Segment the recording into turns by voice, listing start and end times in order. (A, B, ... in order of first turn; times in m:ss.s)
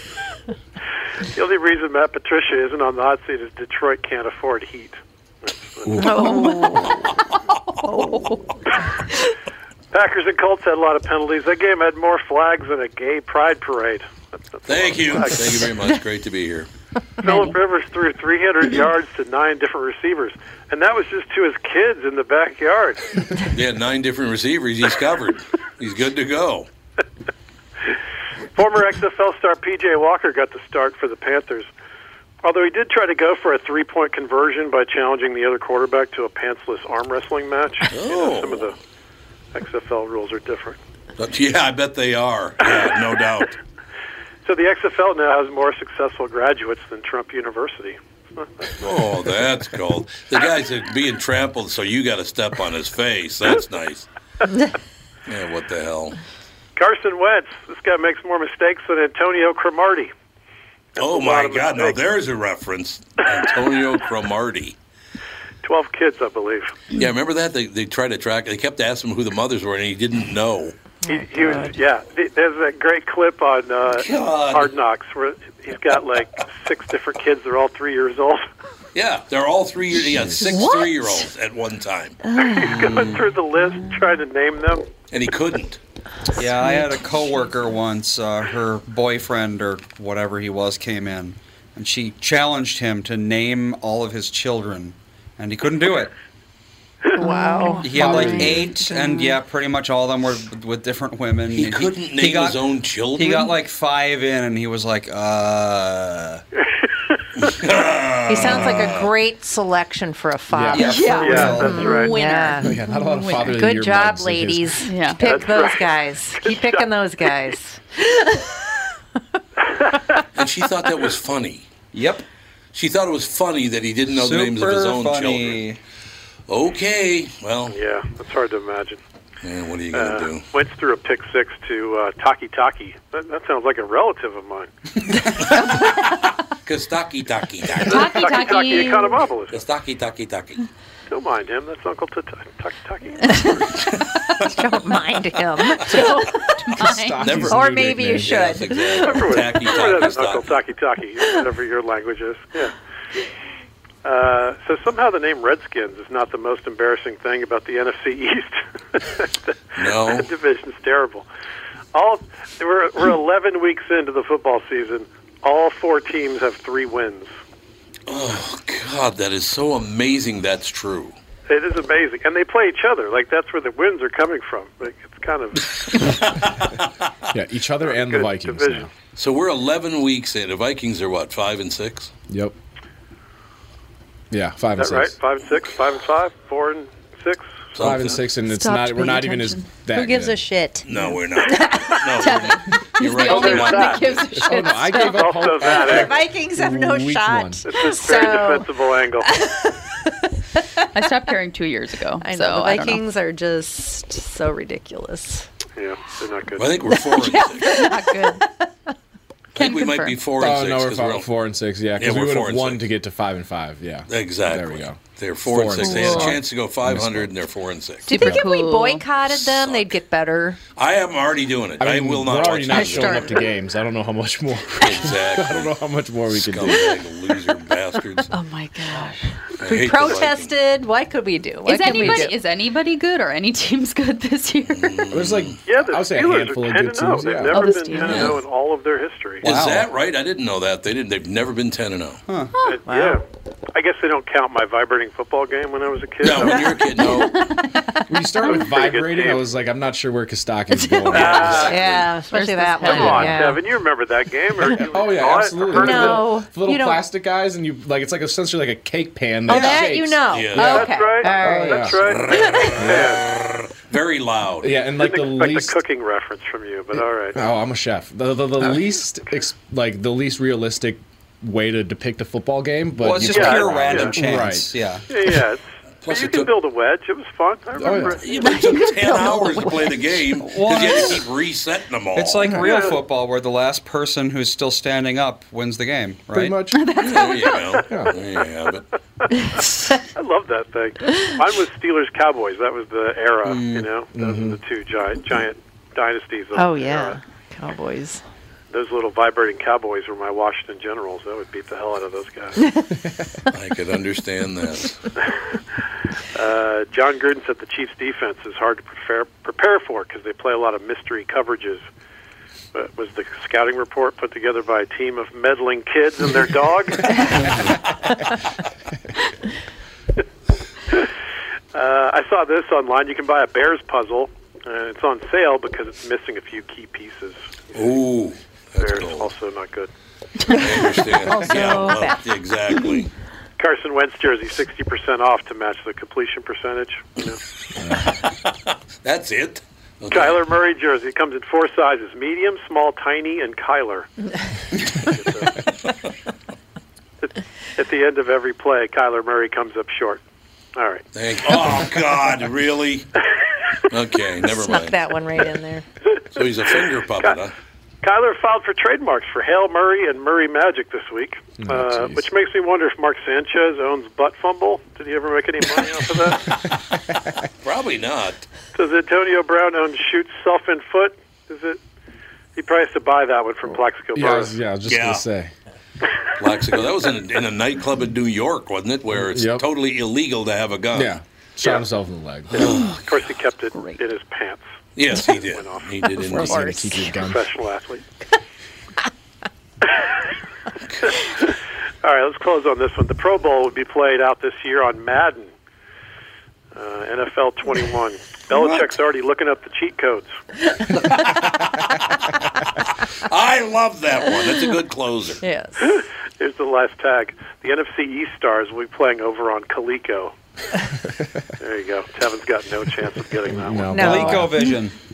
0:01.3-0:06.4 A
0:06.0-0:07.0 B
0:06.0-0:07.0 C
0:07.8-0:08.3 B
0:09.9-0:15.7 A
0:14.7-0:16.7 D
0:17.2-0:23.2 A
0:17.2-0:17.5 C
0:23.5-0:26.7 D
0:28.6-0:31.7 A
0:32.4-0:38.8 A
0:37.9-0:38.7 D
0:39.5-0:40.8 A
0:41.2-0:43.6 D
0:42.6-0:43.4 A
0:44.4-0:48.9 A
0:48.8-0:54.1 D
0:55.3-0:56.2 D
0:56.8-1:00.1 A
1:01.0-1:04.8 D
1:01.0-1:02.0 A
1:05.6-1:06.7 A
1:06.9-1:10.8 D
1:11.1-1:11.7 B
1:11.1-1:18.4 A
1:13.9-1:14.7 D
1:19.0-1:22.2 D
1:20.4-1:21.2 C
1:22.3-1:22.7 C
1:22.4-1:24.9 A
1:22.6-1:23.3 E
1:25.1-1:25.8 D
1:26.4-1:36.1 E
1:26.4-1:27.8 C
1:37.2-1:39.4 C
1:37.2-1:38.4 B
1:37.8-1:46.4 E
1:41.6-1:43.5 D
1:47.4-1:49.1 D
1:48.3-1:52.8 B
1:50.5-1:51.5 F
1:50.7-1:53.6 C
1:50.8-1:52.0 E
1:51.1-1:52.2 A
1:52.6-1:54.8 F
1:53.4-1:57.8 B
1:54.8-1:55.2 C
1:55.2-1:56.8 A
1:59.6-2:00.2 A
2:00.4-2:01.7 D
2:01.9-2:02.2 E
2:02.7-2:05.6 D
2:04.1-2:05.8 E
2:06.5-2:07.8 D
2:07.7-2:09.0 A
2:09.4-2:10.5 D
2:09.9-2:14.7 A
2:15.4-2:15.9 D
2:16.6-2:18.2 D
2:17.8-2:19.2 C
2:17.8-2:19.6 A
2:19.5-2:20.7 D
2:21.1-2:23.8 A
2:24.4-2:26.1 B
2:25.9-2:27.2 C
2:26.6-2:28.6 F
2:27.2-2:30.6 D
2:27.5-2:29.4 B
2:29.1-2:32.7 A
2:34.0-2:41.3 A
2:39.8-2:40.3 D
2:41.9-2:47.3 A
2:48.1-2:51.2 D
2:51.5-2:56.1 A
2:56.2-2:56.9 D
2:57.3-2:58.9 F
2:57.8-2:58.9 A
2:59.2-3:02.1 D
3:02.3-3:02.6 F
3:04.3-3:05.2 F
3:04.8-3:08.0 A
3:07.7-3:08.3 D
3:07.8-3:10.5 F
3:08.4-3:09.7 C
3:09.9-3:12.0 B
3:10.8-3:14.3 D
3:11.0-3:15.3 C
3:13.3-3:13.6 F
3:14.4-3:17.6 F
3:15.0-3:16.3 A
3:15.6-3:18.7 B
3:17.6-3:19.4 A
3:19.4-3:19.7 B
3:20.9-3:23.0 C
3:22.2-3:25.4 B
3:25.8-3:26.9 A
3:26.6-3:27.7 D
3:27.0-3:28.5 B
3:27.2-3:28.4 C
3:29.6-3:31.3 D
3:29.6-3:30.2 C
3:30.4-3:37.3 F
3:32.0-3:32.8 D
3:34.1-3:38.1 D
3:35.9-3:36.3 C
3:38.1-3:40.6 B
3:38.1-3:39.0 C
3:38.1-3:38.4 F
3:39.3-3:39.9 D
3:40.8-3:43.5 D
3:41.8-3:47.0 F
3:42.7-3:43.5 B
3:44.8-3:45.8 D
3:46.3-3:48.3 D
3:48.3-3:49.3 C
3:49.6-3:50.5 D
3:49.6-3:52.4 B
3:51.6-3:55.0 C
3:54.7-3:55.6 D
3:55.1-3:57.7 F
3:55.6-3:59.4 A
3:57.5-3:58.4 C
3:58.0-3:58.4 D
3:59.4-3:59.9 E
3:59.4-4:02.2 D
4:02.6-4:03.2 A
4:02.9-4:03.2 B
4:03.7-4:07.0 A
4:06.2-4:07.5 D
4:07.0-4:07.6 C
4:08.1-4:11.8 F
4:08.4-4:09.4 A
4:10.7-4:11.6 C
4:11.1-4:11.9 A
4:11.1-4:12.1 D
4:11.7-4:13.6 B
4:12.3-4:13.5 C
4:12.8-4:16.3 A
4:14.7-4:22.0 F
4:15.7-4:17.0 B
4:19.5-4:22.7 B
4:19.5-4:19.8 A
4:20.2-4:20.9 D
4:20.6-4:23.2 A
4:22.0-4:24.8 D
4:22.7-4:23.2 F
4:24.6-4:25.8 F
4:25.0-4:27.4 A
4:27.4-4:34.7 F
4:33.0-4:35.0 E
4:33.3-4:34.5 A
4:35.1-4:38.8 A
4:36.0-4:36.5 D
4:37.8-4:38.2 F
4:38.2-4:42.4 D
4:38.4-4:39.8 C
4:40.4-4:41.3 E
4:42.1-4:46.6 E
4:42.5-4:43.0 A
4:46.3-4:46.8 F
4:46.7-4:47.9 C
4:47.0-4:48.9 D
4:47.9-4:48.1 F
4:50.1-4:57.2 A
4:53.4-4:53.9 E
4:54.1-4:54.6 F
4:56.6-4:58.2 B
4:58.7-5:02.6 A
5:03.5-5:05.0 D
5:06.4-5:11.8 A
5:12.7-5:17.4 A
5:21.7-5:27.4 A
5:27.7-5:29.3 D
5:28.8-5:29.9 A
5:30.5-5:33.1 D
5:31.3-5:32.2 B
5:31.3-5:31.8 C
5:33.6-5:37.4 A
5:37.8-5:38.1 F
5:39.0-5:40.4 D
5:40.1-5:44.1 A
5:44.9-5:45.6 A
5:47.2-5:50.2 A
5:50.8-5:51.8 A
5:51.1-5:53.1 D
5:53.9-5:55.0 D
5:54.4-5:55.8 B
5:56.1-5:57.4 A
5:56.4-5:57.6 D
5:58.0-6:06.4 A
6:01.6-6:02.3 F
6:07.6-6:08.4 D
6:08.7-6:11.8 A
6:12.6-6:14.5 A
6:13.7-6:15.5 F
6:14.8-6:15.2 D
6:16.4-6:21.2 D
6:19.2-6:19.6 F
6:20.9-6:22.6 F
6:22.5-6:23.2 D
6:22.5-6:24.7 A
6:22.6-6:23.0 C
6:23.7-6:24.0 C
6:25.0-6:26.7 D
6:25.3-6:26.0 A
6:26.2-6:27.4 F
6:26.4-6:27.1 B
6:26.6-6:28.0 A
6:29.8-6:30.3 A
6:30.9-6:31.2 D
6:31.0-6:35.5 A
6:36.7-6:40.3 A
6:41.0-6:42.1 D
6:43.2-6:45.4 D
6:45.4-6:45.8 B
6:45.8-6:50.3 A
6:51.6-6:54.1 A
6:53.5-6:54.6 F
6:53.9-6:54.5 B
6:54.0-6:54.9 E